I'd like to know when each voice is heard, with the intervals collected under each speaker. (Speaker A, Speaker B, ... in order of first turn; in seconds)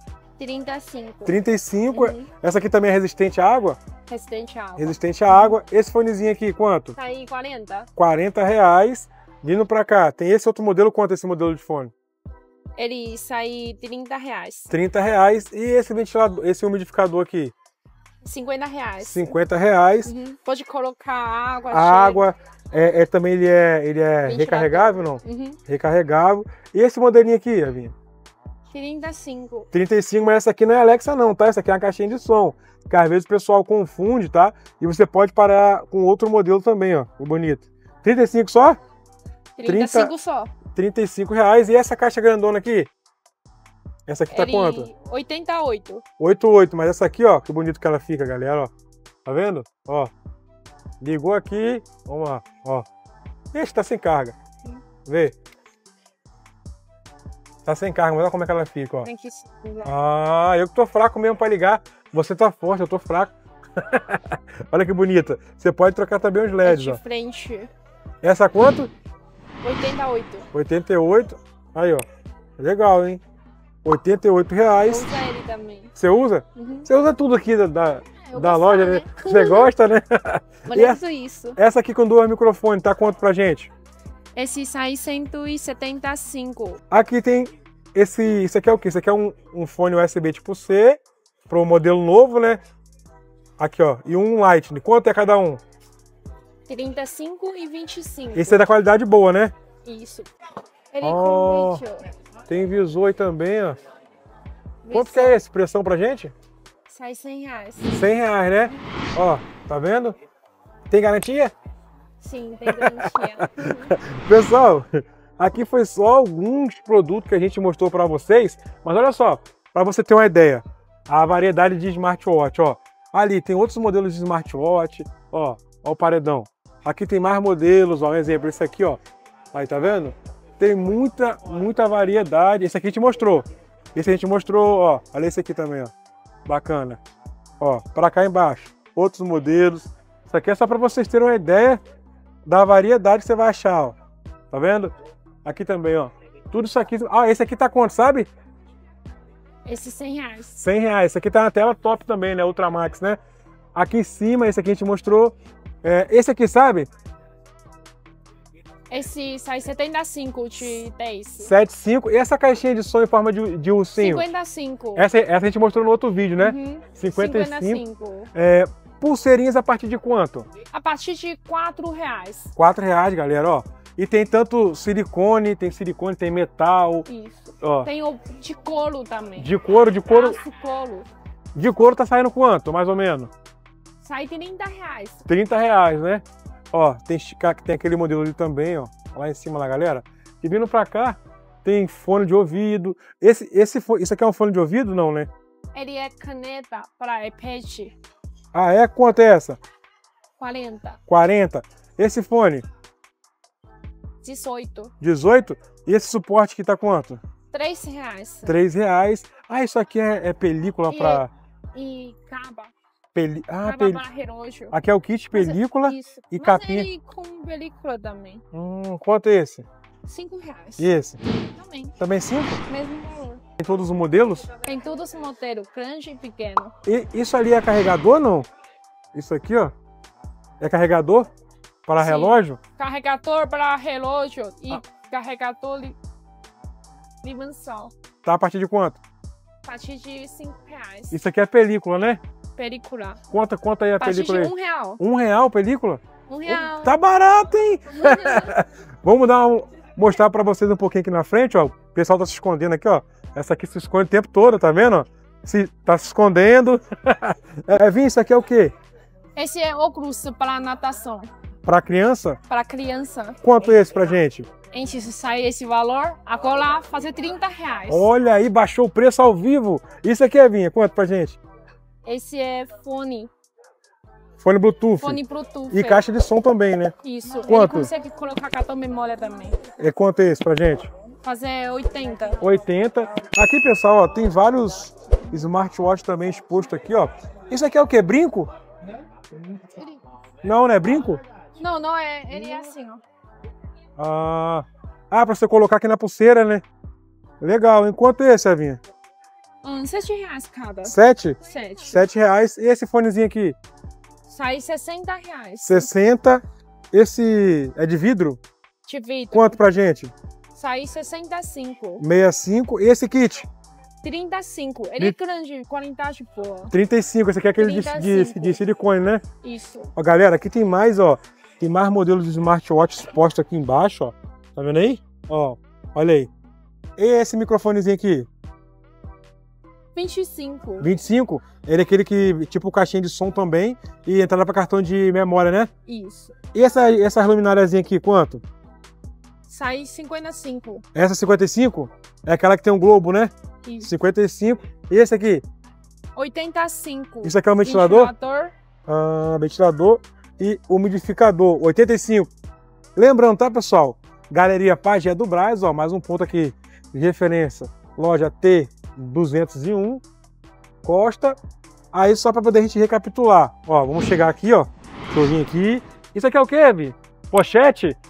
Speaker A: 0.4-1.4, 1.9-2.3, 4.1-5.5, 6.9-7.9, 12.8-14.7, 18.2-19.3, 20.0-22.3, 24.2-25.6, 28.7-29.7, 39.6-40.5, 44.3-46.0, 59.0-59.9, 66.6-67.7, 69.6-70.5, 74.8-75.9, 76.5-76.9, 78.2-79.7, 80.7-81.6, 84.3-86.8, 96.7-98.6, 99.8-100.3, 100.9-102.1, 104.8-105.4, 106.9-108.1, 112.2-113.9, 149.6-150.5, 158.9-161.5, 164.0-165.1, 166.4-168.3, 170.7-172.5, 177.1-179.5, 180.1-181.1, 184.0-185.2, 195.7-197.9, 200.4-201.0, 204.2-204.9, 207.5-208.6, 210.9-211.2, 211.7-212.7, 213.6-214.7, 215.3-218.4, 220.0-221.9, 222.7-223.4, 224.6-226.7, 232.0-236.0, 237.2-237.9, 239.6-241.2, 242.6-243.2, 244.0-245.0, 246.3-246.9, 247.9-248.5, 259.4-261.3, 262.5-263.8, 264.7-268.1, 272.0-273.3, 275.0-276.1, 277.0-279.6, 281.2-282.4, 289.8-290.0, 291.6-293.0, 299.6-302.0, 304.3-305.9, 308.8-309.6, 310.5-312.0, 314.0-316.7, 317.6-318.6, 319.4-319.9, 329.9-330.9, 335.9-336.3, 339.5-340.8, 343.6-343.9, 346.1-348.5
Speaker B: 1.2-3.8, 4.8-7.0, 8.0-11.9, 14.7-17.5, 19.0-20.1, 21.7-27.9, 29.7-38.8, 39.6-40.1, 40.7-42.9, 44.1-44.9, 46.2-48.7, 49.2-50.1, 51.0-52.9, 53.5-54.4, 55.0-55.3, 57.6-59.1, 59.8-67.0, 68.2-68.9, 70.5-72.0, 72.6-73.2, 73.8-75.1, 76.0-81.0, 81.5-83.7, 86.9-92.6, 93.6-95.6, 98.3-99.5, 101.0-101.8, 102.5-103.8, 104.9-106.3, 107.9-110.2, 110.9-111.5, 112.7-129.0, 129.5-135.9, 136.5-137.0, 137.6-141.8, 142.4-144.0, 144.5-148.3, 150.5-153.2, 153.7-156.9, 161.4-164.2, 164.9-167.8, 168.3-170.5, 172.6-177.0, 177.6-177.9, 179.4-180.4, 181.5-183.3, 185.3-195.3, 198.5-199.6, 201.1-202.6, 205.0-207.2, 208.4-211.3, 213.1-214.0, 214.7-216.9, 218.5-219.6, 220.8-221.2, 222.0-222.6, 223.6-224.5, 226.8-228.5, 229.1-229.7, 230.6-231.3, 231.9-232.6, 238.2-239.0, 241.1-242.2, 243.3-258.7, 261.6-262.4, 263.4-264.5, 267.9-271.4, 274.4-276.9, 277.4-277.9, 279.8-280.9, 282.4-288.5, 290.4-291.2, 294.0-296.6, 297.4-298.8, 300.8-303.6, 305.6-308.4, 309.3-310.1, 312.0-313.5, 316.7-319.2, 319.9-326.3, 327.0-328.3, 330.8-335.7, 336.5-338.4, 340.9-345.4, 347.2-348.1, 348.9-352.3, 352.9-360.0, 360.8-361.4, 361.9-368.0